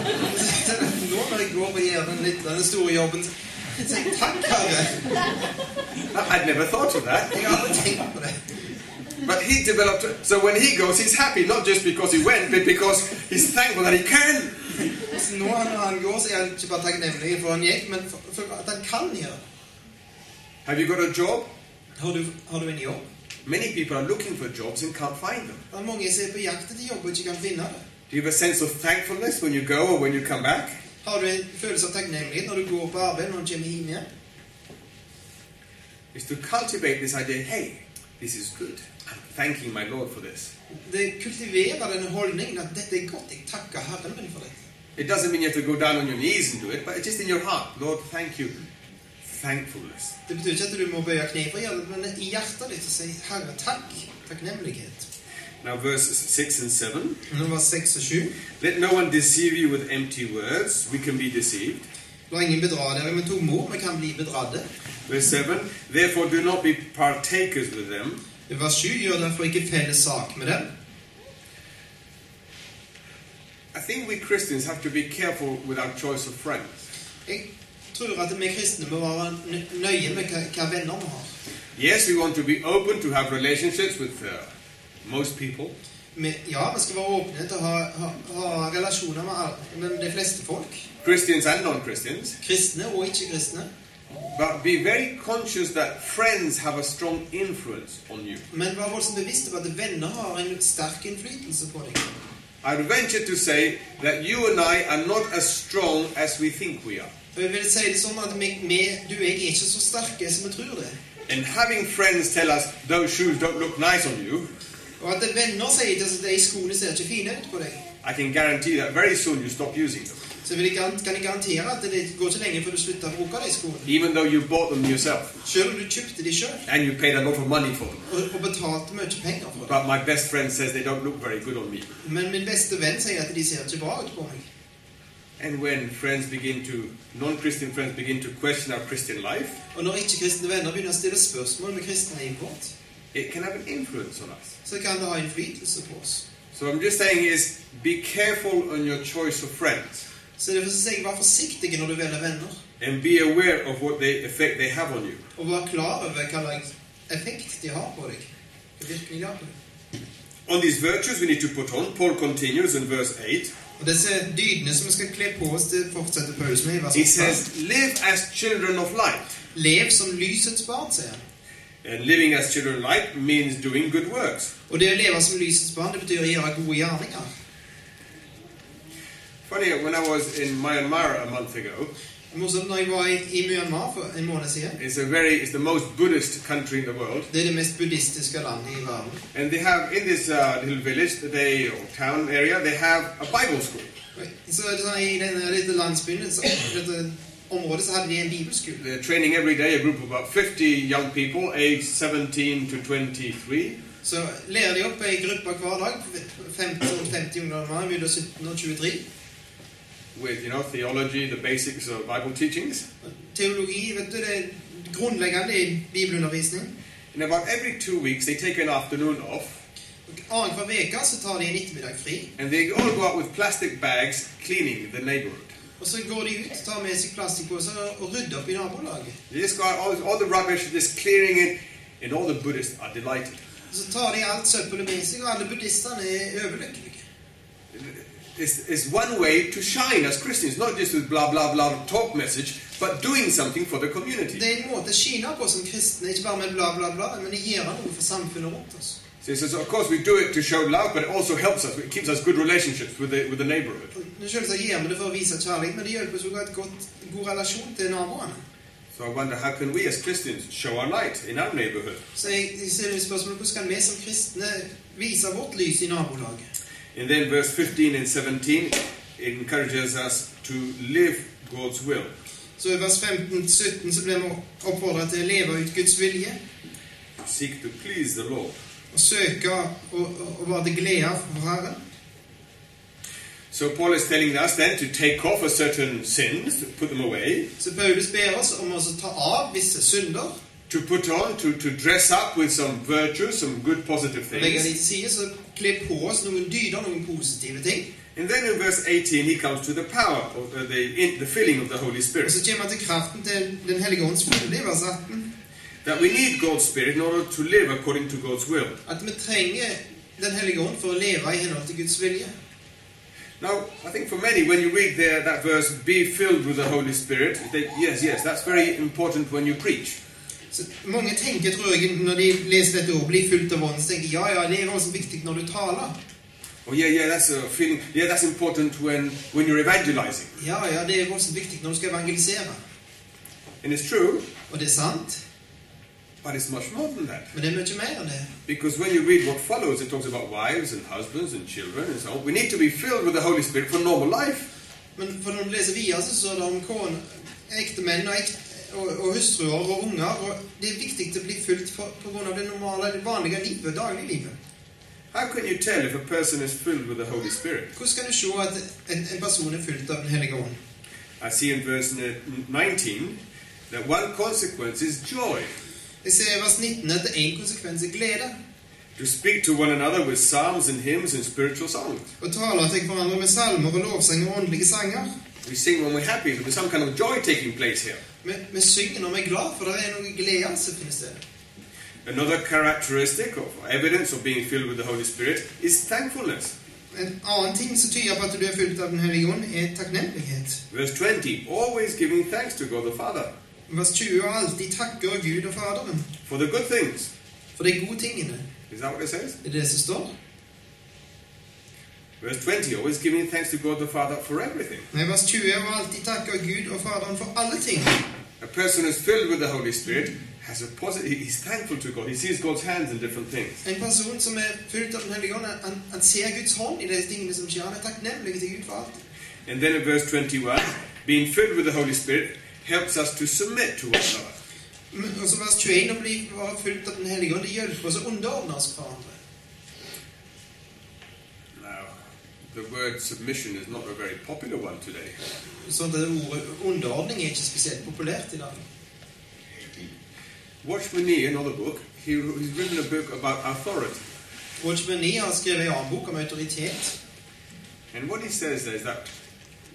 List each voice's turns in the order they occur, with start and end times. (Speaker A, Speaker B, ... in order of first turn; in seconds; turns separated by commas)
Speaker A: 0.2-5.2, Speaker B: 6.1-7.6, Speaker A: 7.3-8.4, Speaker B: 9.2-14.9, Speaker A: 15.1-19.4, Speaker B: 20.6-21.5, Speaker A: 22.0-23.1, Speaker B: 23.4-25.6, Speaker A: 25.7-27.8, Speaker B: 28.1-30.8, Speaker A: 31.0-34.1, Speaker B: 36.1-40.5, Speaker A: 40.7-44.6, Speaker B: 45.0-48.6, Speaker B: 49.2-50.2, Speaker A: 50.3-55.1, Speaker B: 55.6-57.2, Speaker A: 57.3-58.4, Speaker B: 58.6-61.9, Speaker A: 62.3-64.7, Speaker B: 65.1-68.2, Speaker A: 68.5-70.7, Speaker B: 73.7-76.8, Speaker A: 77.3-81.3, Speaker B: 81.8-84.5, Speaker B: 85.0-85.7, Speaker A: 86.2-90.9, Speaker B: 91.0-92.4, Speaker A: 92.4-93.7, Speaker B: 94.3-98.4, Speaker A: 98.5-102.1, Speaker B: 102.6-107.1, Speaker A: 107.3-111.0, Speaker B: 111.3-114.5, Speaker A: 115.0-117.8, Speaker B: 118.0-120.2, Speaker A: 120.5-123.9, Speaker B: 123.9-125.4, Speaker A: 125.5-126.6, Speaker B: 126.7-128.0, Speaker A: 128.1-129.8, Speaker B: 129.7-131.9, Speaker A: 132.0-134.5, Speaker B: 135.4-139.6, Speaker A: 139.7-142.7, Speaker B: 143.1-144.6, Speaker A: 144.7-146.2, Speaker B: 146.5-150.1, Speaker A: 150.4-152.6, Speaker B: 152.8-155.2, Speaker A: 155.4-159.6, Speaker B: 160.5-163.5, Speaker A: 163.8-167.4, Speaker B: 166.9-169.4, Speaker A: 169.5-171.2, Speaker B: 171.8-174.5, Speaker A: 174.7-177.3, Speaker B: 179.5-181.9, Speaker A: 182.3-184.8, Speaker B: 184.8-187.3, Speaker A: 187.3-189.2, Speaker B: 189.3-193.9, Speaker A: 194.2-198.8, Speaker B: 198.8-203.8, Speaker A: 204.0-209.1, Speaker B: 210.1-212.8, Speaker A: 213.0-216.7, Speaker B: 217.1-219.6, Speaker A: 220.1-222.3, Speaker B: 222.4-225.5, Speaker A: 225.8-229.2, Speaker B: 229.3-233.4, Speaker A: 233.7-237.0, Speaker B: 237.7-244.4, Speaker A: 244.3-249.0, Speaker B: 249.2-253.9, Speaker A: 253.9-258.4, Speaker B: 258.9-262.0, Speaker A: 262.1-266.5, Speaker B: 266.9-272.1, Speaker A: 272.6-276.4, Speaker B: 277.2-278.6, Speaker A: 278.9-281.8, Speaker B: 283.5-287.5, Speaker A: 287.6-290.3, Speaker B: 290.7-294.7, Speaker A: 294.3-297.9, Speaker B: 298.1-302.3, Speaker A: 302.2-305.3, Speaker B: 305.8-308.8, Speaker A: 308.9-312.3, Speaker B: 313.4-320.0, Speaker A: 320.5-325.9, Speaker B: 326.6-330.4, Speaker A: 330.4-332.6, Speaker B: 333.6-334.3, Speaker A: 334.5-335.2, Speaker B: 336.2-337.3, Speaker A: 337.3-338.3, Speaker B: 338.5-344.5, Speaker A: 345.0-354.4, Speaker B: 355.1-357.7, Speaker A: 357.8-360.6, Speaker B: 361.2-363.2, Speaker B: 363.7-365.5, Speaker A: 366.0-368.3, Speaker B: 369.0-372.1, Speaker A: 372.2-375.1, Speaker B: 375.4-378.0, Speaker A: 378.2-381.2, Speaker B: 382.1-386.5, Speaker A: 386.9-390.6, Speaker B: 390.7-393.3, Speaker A: 393.7-396.1, Speaker B: 396.3-397.1, Speaker A: 397.6-398.4, Speaker B: 398.7-399.4, Speaker A: 399.4-400.1, Speaker B: 402.2-404.9, Speaker A: 404.9-408.1, Speaker B: 408.4-413.6, Speaker A: 413.6-419.0, Speaker B: 419.5-424.4, Speaker A: 424.9-429.2, Speaker B: 431.6-431.9, Speaker B: 432.5-435.2, Speaker A: 435.6-438.6, Speaker B: 440.6-444.0, Speaker A: 444.6-447.0, Speaker B: 447.9-449.1